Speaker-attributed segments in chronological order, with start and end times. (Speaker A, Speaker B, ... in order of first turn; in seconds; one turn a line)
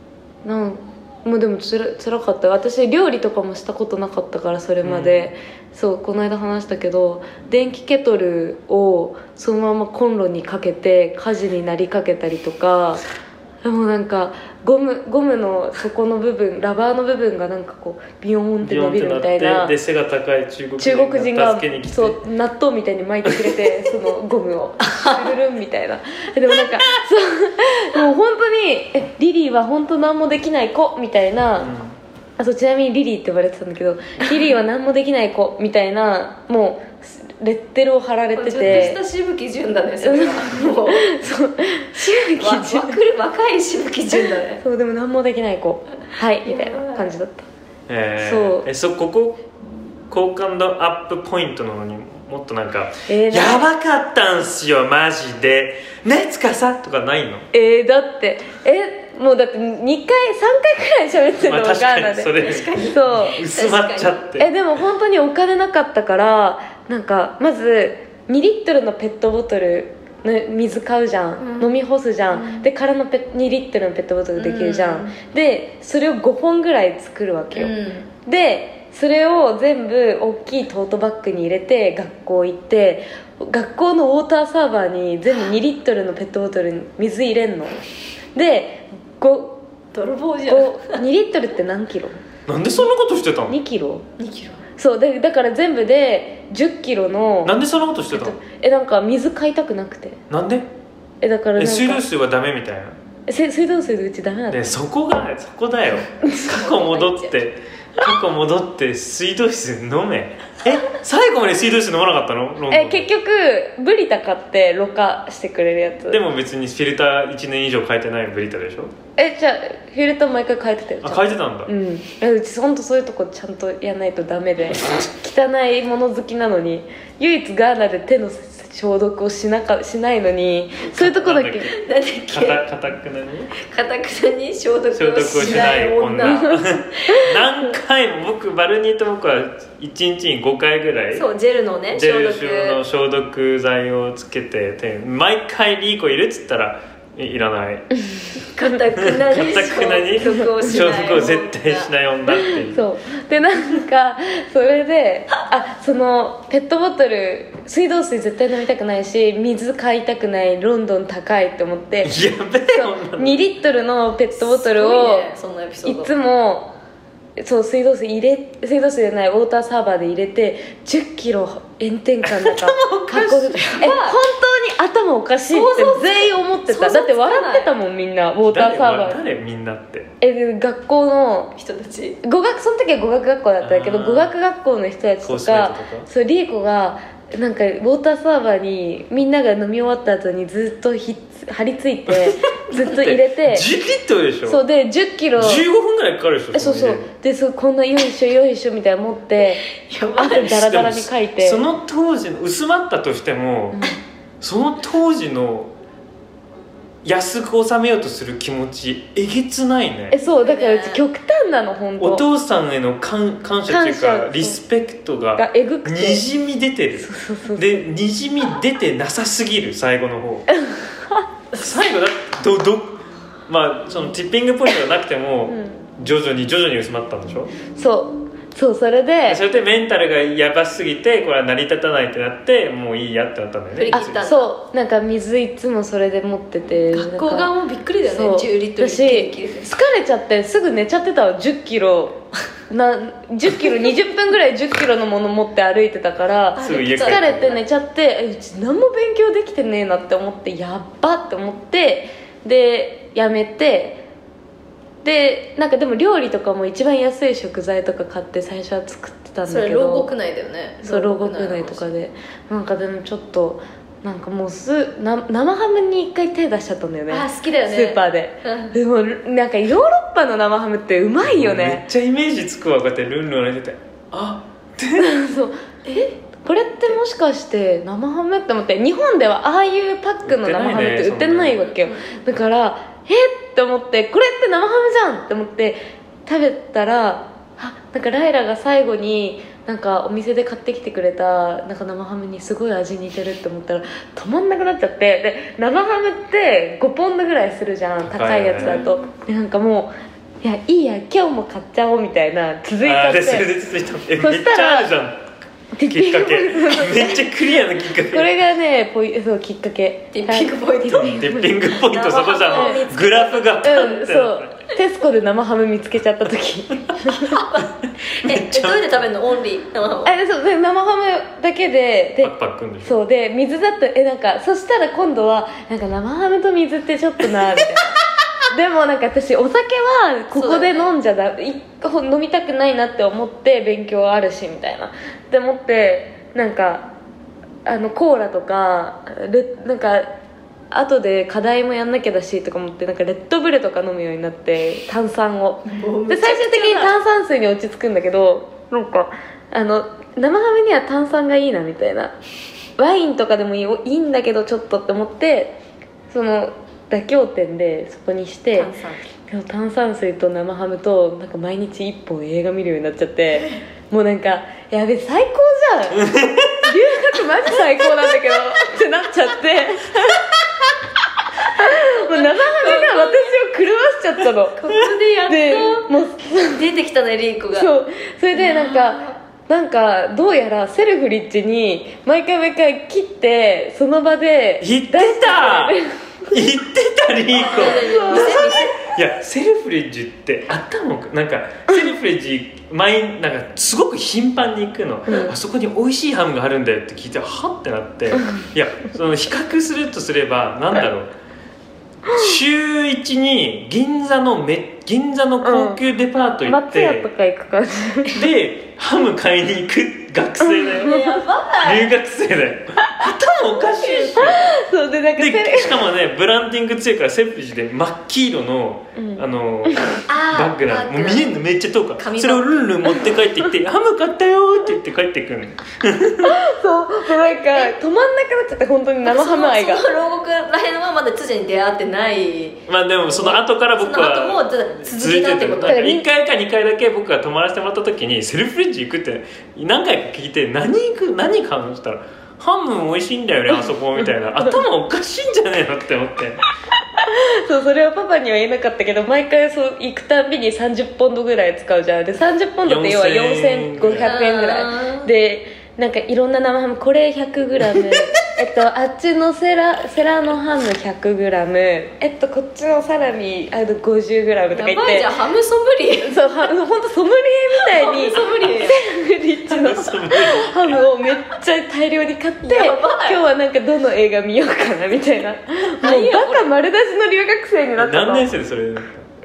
Speaker A: 0.4-13.0
Speaker B: 4.8-5.3
Speaker A: 13.6-19.7
Speaker B: 18.6-22.2
Speaker A: 20.8-31.7
Speaker B: 23.2-23.6
Speaker C: 24.8-25.3
Speaker B: 31.6-31.9
Speaker A: 32.4-39.0
Speaker C: 38.3-41.1
Speaker A: 40.0-43.0
Speaker C: 42.4-44.6
Speaker A: 44.1-47.5
Speaker C: 46.4-47.1
Speaker B: 47.9-49.5
Speaker A: 48.2-48.6
Speaker B: 50.1-57.5
Speaker A: 53.1-53.7
Speaker A: 57.5-63.4
Speaker B: 61.4-64.5
Speaker C: 62.4-64.2
Speaker A: 64.4-77.7
Speaker C: 71.4-71.7
Speaker C: 72.3-72.7
Speaker C: 74.4-75.2
Speaker C: 77.5-78.1
Speaker A: 78.2-87.8
Speaker A: 88.3-89.6
Speaker C: 89.9-91.0
Speaker A: 90.5-92.2
Speaker B: 92.5-93.6
Speaker A: 93.5-94.0
Speaker C: 94.2-94.6
Speaker A: 94.8-97.6
Speaker B: 97.4-98.4
Speaker A: 98.1-100.2
Speaker B: 100.3-100.7
Speaker A: 101.2-102.0
Speaker B: 101.6-103.0
Speaker A: 103.3-104.8
Speaker B: 104.5-113.1
Speaker A: 106.2-106.5
Speaker C: 106.3-107.4
Speaker A: 112.7-116.2
Speaker B: 116.1-118.9
Speaker A: 119.2-131.7
Speaker B: 121.0-121.7
Speaker B: 130.9-131.7
Speaker C: 131.7-132.6
Speaker B: 132.3-133.5
Speaker C: 133.6-136.6
Speaker B: 134.9-141.2
Speaker A: 136.2-137.4
Speaker C: 141.1-142.8
Speaker B: 141.9-147.9
Speaker A: 148.0-148.6
Speaker C: 148.5-151.9
Speaker B: 149.0-152.8
Speaker A: 152.3-162.2
Speaker B: 162.0-163.4
Speaker A: 162.7-165.3
Speaker C: 164.4-166.1
Speaker A: 165.8-166.7
Speaker A: 167.4-179.2
Speaker B: 172.2-172.7
Speaker C: 172.8-174.2
Speaker C: 175.5-177.7
Speaker B: 178.4-180.1
Speaker A: 180.2-181.5
Speaker C: 181.6-182.2
Speaker A: 182.2-193.7
Speaker B: 183.6-184.3
Speaker B: 185.2-186.1
Speaker B: 192.1-194.6
Speaker A: 194.4-195.7
Speaker B: 195.3-197.1
Speaker A: 196.5-199.6
Speaker C: 199.7-200.5
Speaker A: 200.2-201.6
Speaker B: 200.4-203.8
Speaker B: 204.4-205.7
Speaker B: 207.0-210.2
Speaker A: 210.1-212.2
Speaker C: 210.2-211.0
Speaker B: 212.0-220.5
Speaker A: 213.7-214.6
Speaker A: 215.4-216.2
Speaker A: 217.0-217.8
Speaker A: 220.7-221.2
Speaker B: 221.5-227.5
Speaker A: 225.5-225.9
Speaker A: 227.7-229.4
Speaker B: 229.2-234.2
Speaker C: 233.7-234.5
Speaker A: 233.9-237.5
Speaker C: 236.9-239.7
Speaker A: 238.0-254.0
Speaker C: 246.6-247.6
Speaker B: 246.6-247.6
Speaker A: 255.0-260.1
Speaker C: 259.4-261.9
Speaker A: 260.8-271.8
Speaker C: 267.1-268.8
Speaker B: 271.2-275.1
Speaker A: 274.9-303.6
Speaker B: 280.2-281.7
Speaker C: 281.6-282.1
Speaker B: 298.1-298.9
Speaker B: 302.8-305.3
Speaker A: 304.2-304.9
Speaker A: 305.7-311.6
Speaker B: 305.9-308.3
Speaker C: 310.1-314.0
Speaker B: 310.9-314.5
Speaker A: 312.5-312.8
Speaker A: 313.6-317.4
Speaker C: 317.0-320.1
Speaker B: 318.2-319.0
Speaker A: 320.0-336.9
Speaker B: 322.2-323.0
Speaker C: 330.3-330.9
Speaker A: 337.6-340.1
Speaker A: 340.7-352.1
Speaker C: 345.6-346.9
Speaker A: 352.8-355.6
Speaker A: 356.1-358.7
Speaker C: 358.5-359.0
Speaker A: 359.3-370.3
Speaker B: 365.9-366.6
Speaker A: 371.4-376.7
Speaker C: 371.6-373.4
Speaker C: 374.5-375.9
Speaker C: 376.4-377.7
Speaker A: 377.6-386.4
Speaker C: 378.3-379.1
Speaker B: 384.6-385.8
Speaker B: 386.3-401.1
Speaker C: 387.3-388.8
Speaker A: 387.7-388.5
Speaker A: 398.1-398.4
Speaker B: 402.1-407.1
Speaker A: 405.4-405.8
Speaker A: 406.4-408.2
Speaker B: 408.1-410.9
Speaker A: 410.4-411.2
Speaker C: 410.8-411.9
Speaker B: 411.6-414.5
Speaker A: 412.8-413.1
Speaker C: 413.5-414.5
Speaker A: 414.1-415.9
Speaker B: 415.2-426.4
Speaker A: 418.9-419.9
Speaker C: 420.1-421.4
Speaker C: 422.0-422.6
Speaker A: 426.2-429.8
Speaker C: 429.0-436.0
Speaker B: 432.7-446.4
Speaker A: 435.6-436.0
Speaker A: 447.0-465.1
Speaker B: 452.6-454.1
Speaker C: 454.0-455.1
Speaker C: 464.5-466.2
Speaker A: 466.0-478.3
Speaker C: 467.6-468.8
Speaker B: 469.4-470.8
Speaker C: 472.4-473.2
Speaker C: 475.8-476.5
Speaker B: 477.8-479.0